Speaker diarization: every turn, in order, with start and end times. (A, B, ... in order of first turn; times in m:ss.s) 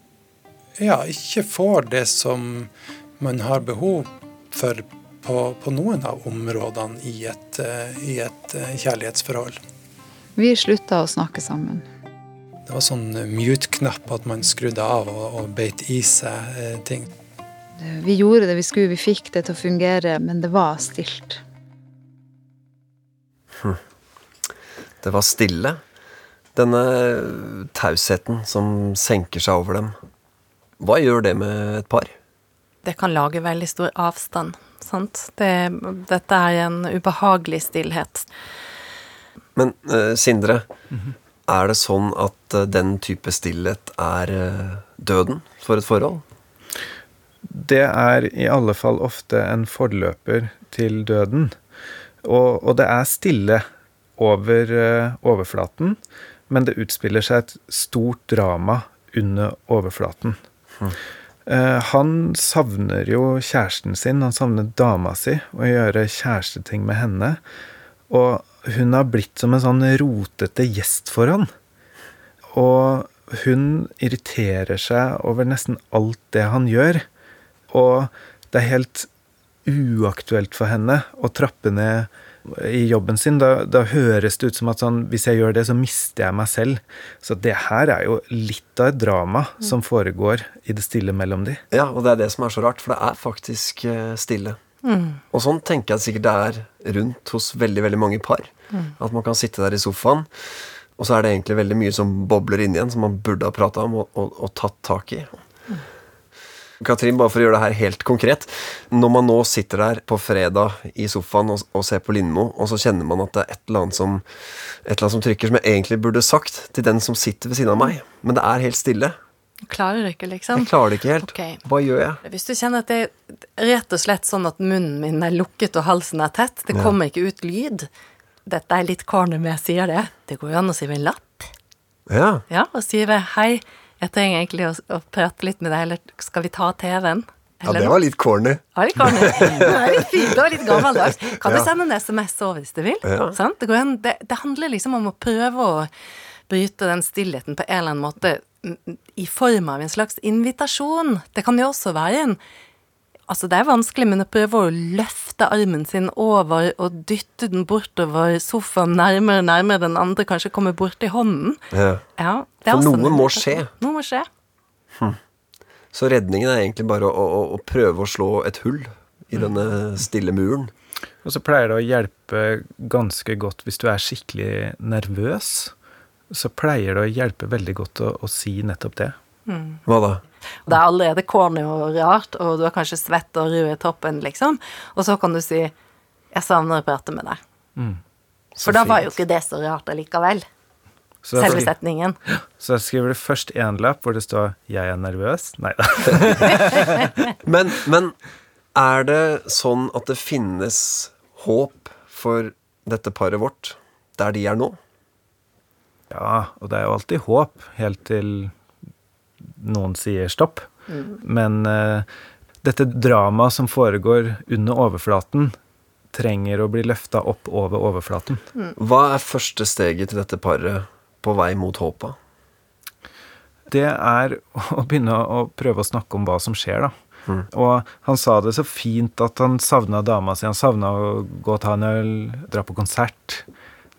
0:00.8-0:09.6 A
0:10.4-0:11.8 B
0:12.7-0:17.1 A
0:17.8-0:21.4 B
0:25.0-0:25.8 C
0:26.6-0:30.0 C
0:30.8-0:32.2 C
0:32.8-0:38.3 D
0:39.6-0:40.7 C
0:41.5-0:46.2 C
0:47.5-0:51.6 E
0:52.2-0:53.6 E
0:54.2-0:56.0 E
0:56.5-1:00.4 E
1:01.5-1:07.4 E
1:08.1-1:11.5 E
1:12.5-1:17.1 E
1:17.7-1:19.1 E
1:19.6-1:31.6 E
1:31.7-1:34.6 C
1:34.8-1:35.2 D
1:35.3-1:40.3 C
1:41.0-1:45.4 C
1:46.8-1:54.2 C
1:54.8-1:59.2 C
1:59.7-2:01.6 D
2:00.5-2:02.2 C
2:02.2-2:07.9 D
2:08.5-2:11.5 D
2:12.1-2:12.4 C
2:12.5-2:18.0 D
2:17.6-2:20.0 C
2:18.8-2:25.9 D
2:20.6-2:21.7 C
2:23.0-2:23.4 C
2:26.5-2:32.4 D
2:33.3-2:41.6 D
2:41.7-2:42.0 C
2:42.2-2:44.3 D
2:42.7-2:43.7 C
2:45.9-2:50.7 C
2:51.2-2:55.7 E
2:56.3-2:59.2 E
2:59.5-2:59.8 D
2:59.9-3:00.2 C
3:00.7-3:05.7 D
3:06.3-3:07.4 D
3:08.6-3:09.1 C
3:08.6-3:10.5 D
3:11.2-3:11.7 E
3:11.4-3:12.2 D
3:11.4-3:11.6 C
3:12.6-3:17.1 E
3:17.4-3:18.2 C
3:18.8-3:24.8 C
3:26.1-3:28.5 E
3:29.5-3:30.7 E
3:30.9-3:31.2 D
3:31.2-3:32.1 E
3:32.6-3:35.6 E
3:36.1-3:38.4 E
3:38.8-3:42.2 C
3:43.7-3:46.9 E
3:47.5-3:53.4 E